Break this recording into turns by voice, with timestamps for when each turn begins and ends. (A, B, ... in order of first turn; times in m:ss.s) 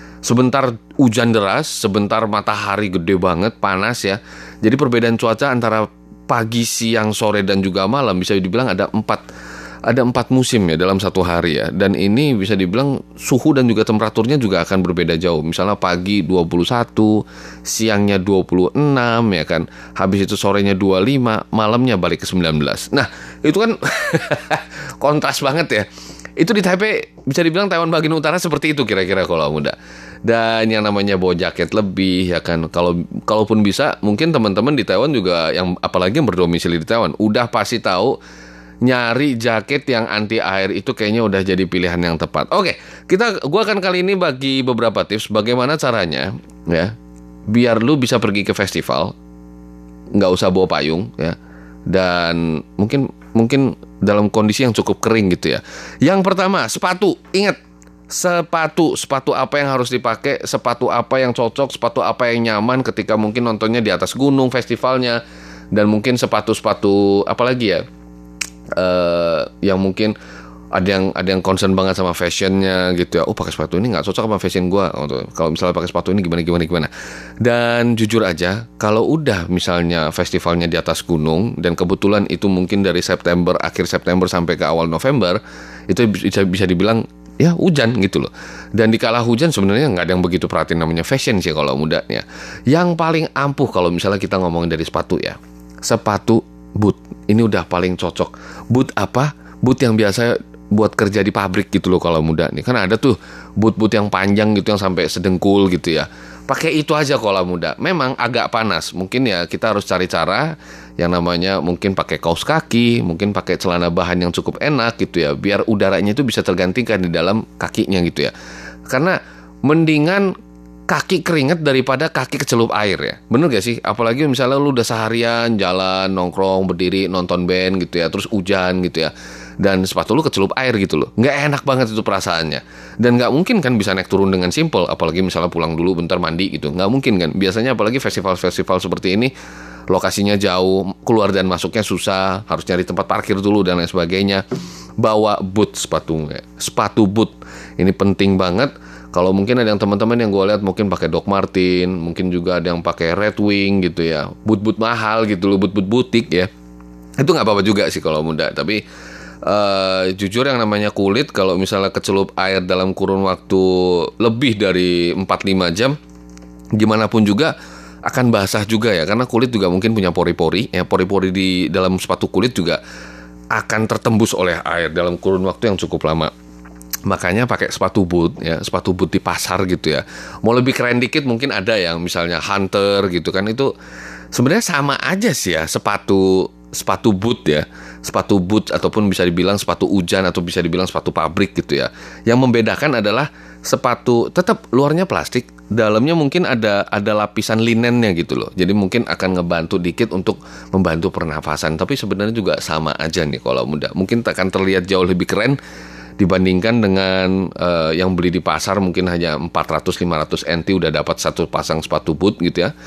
0:00.2-0:09.2 A
0:09.9-0:38.2 A
0:38.8-0:46.9 A
0:47.5-0:49.1 A
0:50.2-0:51.4 A
0:51.9-0:57.6 A
0:58.1-1:05.2 A
1:05.7-1:07.8 A
1:08.8-1:10.2 A
1:10.7-1:16.9 A
1:17.4-1:58.3 A
1:58.9-2:00.3 A
2:00.9-2:19.3 A
2:19.9-2:24.4 A
2:25.0-2:36.5 A
2:37.2-2:38.8 A
2:39.4-2:46.0 A
2:46.8-2:47.5 A
2:48.1-2:52.8 A
2:53.5-2:56.3 A
2:57.1-3:03.7 A
3:04.3-3:25.6 A
3:26.2-3:32.7 A